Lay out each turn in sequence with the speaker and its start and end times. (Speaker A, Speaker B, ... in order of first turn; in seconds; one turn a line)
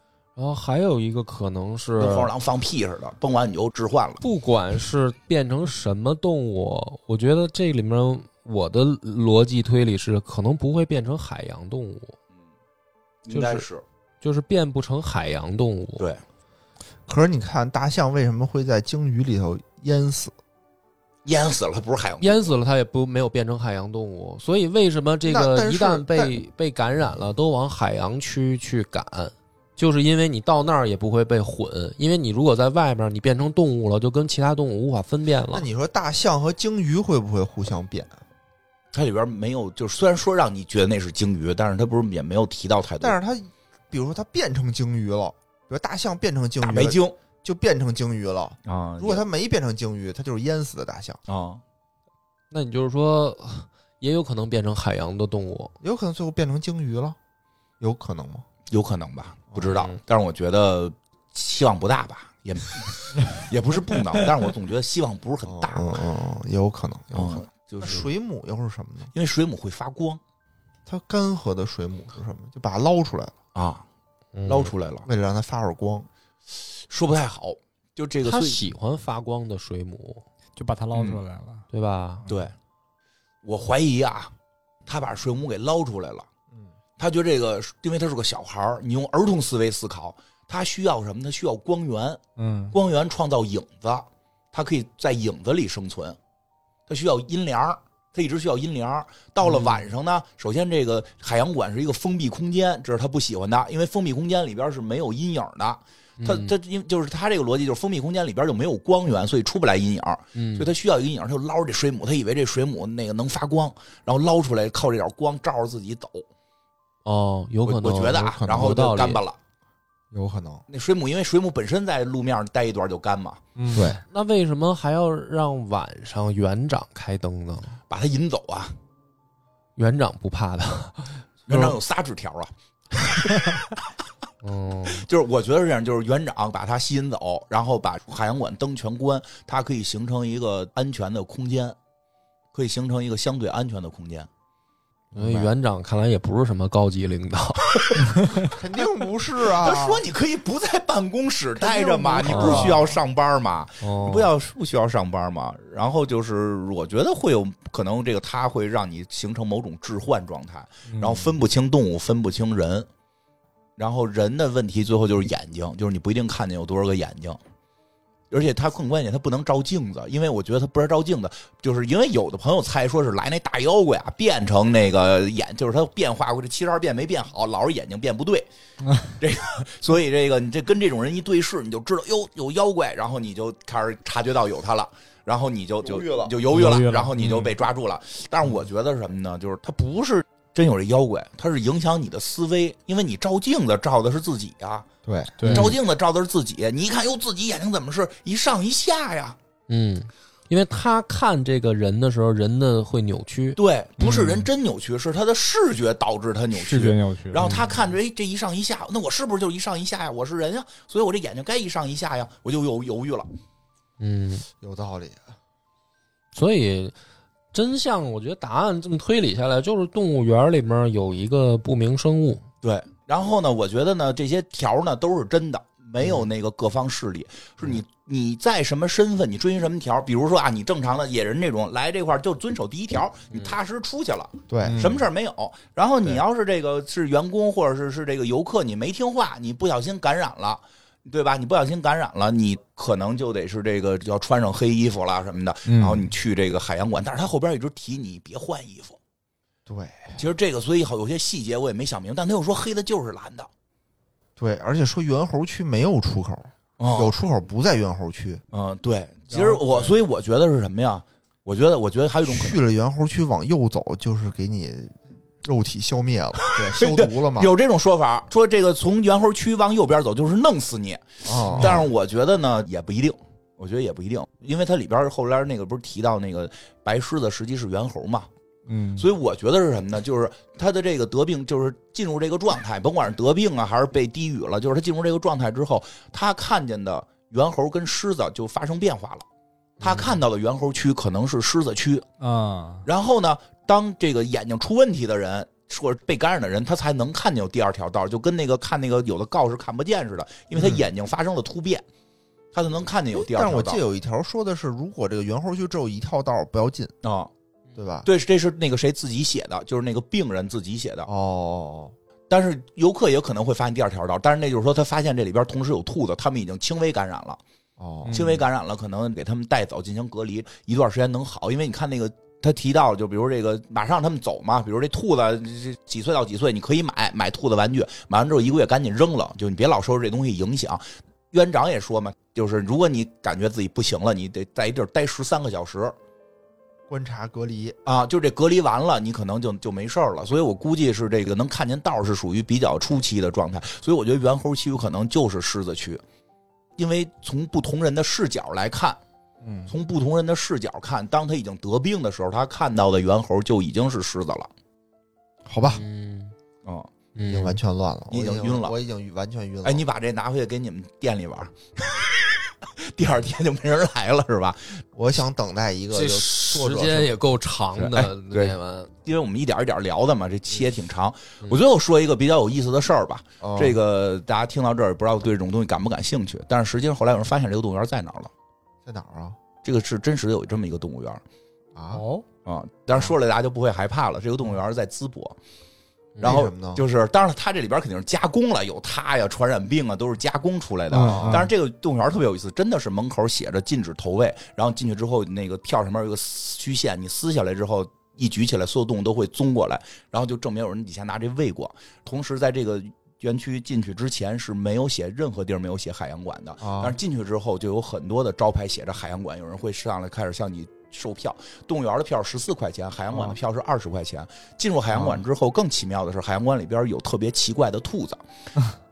Speaker A: 0.4-2.3
Speaker B: 2.0-4.2
Speaker A: 4.2-12.2
Speaker B: 13.2-13.8
Speaker A: 13.3-13.7
Speaker A: 14.2-16.1
Speaker C: 17.1-20.3
Speaker B: 21.2-22.5
Speaker A: 22.2-35.7
Speaker C: 25.3-26.4
Speaker C: 35.5-38.2
Speaker B: 38.9-43.2
Speaker C: 43.0-51.2
Speaker B: 46.6-47.2
Speaker B: 48.7-49.2
Speaker B: 51.3-51.6
Speaker A: 52.5-55.8
Speaker C: 55.8-57.2
Speaker C: 57.8-58.5
Speaker B: 58.7-66.0
Speaker A: 59.6-60.0
Speaker C: 65.5-69.1
Speaker B: 67.1-68.1
Speaker B: 69.1-70.2
Speaker C: 70.9-73.3
Speaker B: 73.5-73.8
Speaker A: 74.3-74.7
Speaker B: 74.5-75.1
Speaker C: 75.0-76.1
Speaker B: 76.9-78.6
Speaker A: 78.2-80.2
Speaker D: 80.6-81.7
Speaker B: 80.9-81.2
Speaker A: 81.7-82.2
Speaker B: 82.3-82.5
Speaker B: 83.4-84.3
Speaker B: 84.9-86.3
Speaker B: 87.0-96.2
Speaker D: 92.4-92.8
Speaker B: 96.9-116.2
Speaker A: 99.4-99.9
Speaker A: 106.2-106.5
Speaker A: 110.3-110.7
Speaker A: 117.0-119.2
Speaker B: 117.7-119.4
Speaker C: 118.4-118.7
Speaker C: 120.1-120.6
Speaker B: 120.7-123.4
Speaker D: 123.6-123.9
Speaker C: 123.7-124.0
Speaker A: 123.8-127.8
Speaker B: 127.9-128.8
Speaker A: 129.8-131.8
Speaker B: 131.5-133.8
Speaker A: 134.4-135.1
Speaker B: 134.9-141.8
Speaker B: 142.5-144.3
Speaker C: 145.1-145.5
Speaker A: 145.2-148.0
Speaker C: 148.5-150.1
Speaker B: 149.6-162.9
Speaker C: 151.6-152.9
Speaker A: 152.3-152.7
Speaker A: 153.8-154.3
Speaker D: 160.9-161.3
Speaker B: 163.8-167.4
Speaker B: 168.3-178.5
Speaker B: 179.2-194.9
Speaker D: 186.5-187.5
Speaker C: 195.1-195.4
Speaker D: 195.4-195.8
Speaker A: 195.4-195.8
Speaker B: 195.4-199.4
Speaker A: 199.7-203.6
Speaker B: 203.6-213.3
Speaker D: 204.0-204.5
Speaker D: 206.5-207.7
Speaker A: 214.0-214.5
Speaker C: 214.6-215.3
Speaker A: 216.3-216.9
Speaker A: 217.5-222.4
Speaker B: 222.6-249.0
Speaker C: 234.5-235.0
Speaker D: 234.6-235.0
Speaker D: 245.7-246.1
Speaker C: 249.7-250.2
Speaker B: 250.2-253.5
Speaker C: 254.4-258.4
Speaker B: 256.8-257.2
Speaker B: 258.5-262.6
Speaker C: 259.3-259.9
Speaker C: 262.3-267.5
Speaker B: 266.6-278.3
Speaker C: 271.2-271.9
Speaker D: 278.7-279.1
Speaker B: 279.0-289.3
Speaker A: 289.8-290.2
Speaker B: 289.8-292.1
Speaker D: 292.2-292.9
Speaker B: 292.9-301.9
Speaker C: 300.6-300.9
Speaker B: 302.5-303.8
Speaker C: 303.1-306.9
Speaker B: 307.0-307.3
Speaker C: 307.8-308.1
Speaker B: 308.1-311.1
Speaker C: 311.1-311.9
Speaker B: 312.3-317.4
Speaker C: 317.8-318.2
Speaker D: 318.1-318.4
Speaker B: 318.1-336.0
Speaker C: 336.9-337.8
Speaker B: 337.9-346.0
Speaker B: 346.8-349.0
Speaker B: 349.7-354.5
Speaker C: 355.5-355.8
Speaker A: 355.6-356.3
Speaker A: 357.1-357.6
Speaker C: 357.3-359.8
Speaker B: 358.1-358.8
Speaker B: 359.6-364.8
Speaker C: 364.9-367.1
Speaker A: 365.9-368.9
Speaker B: 367.8-378.3
Speaker C: 373.4-373.8
Speaker C: 378.9-379.4
Speaker B: 379.6-381.2
Speaker C: 381.8-382.0
Speaker D: 381.9-382.2
Speaker B: 382.4-385.4
Speaker A: 386.2-386.4
Speaker B: 386.2-418.2
Speaker C: 386.2-386.8
Speaker C: 390.9-391.5
Speaker D: 391.0-391.4
Speaker C: 406.6-407.0
Speaker C: 413.1-413.4
Speaker C: 414.9-415.2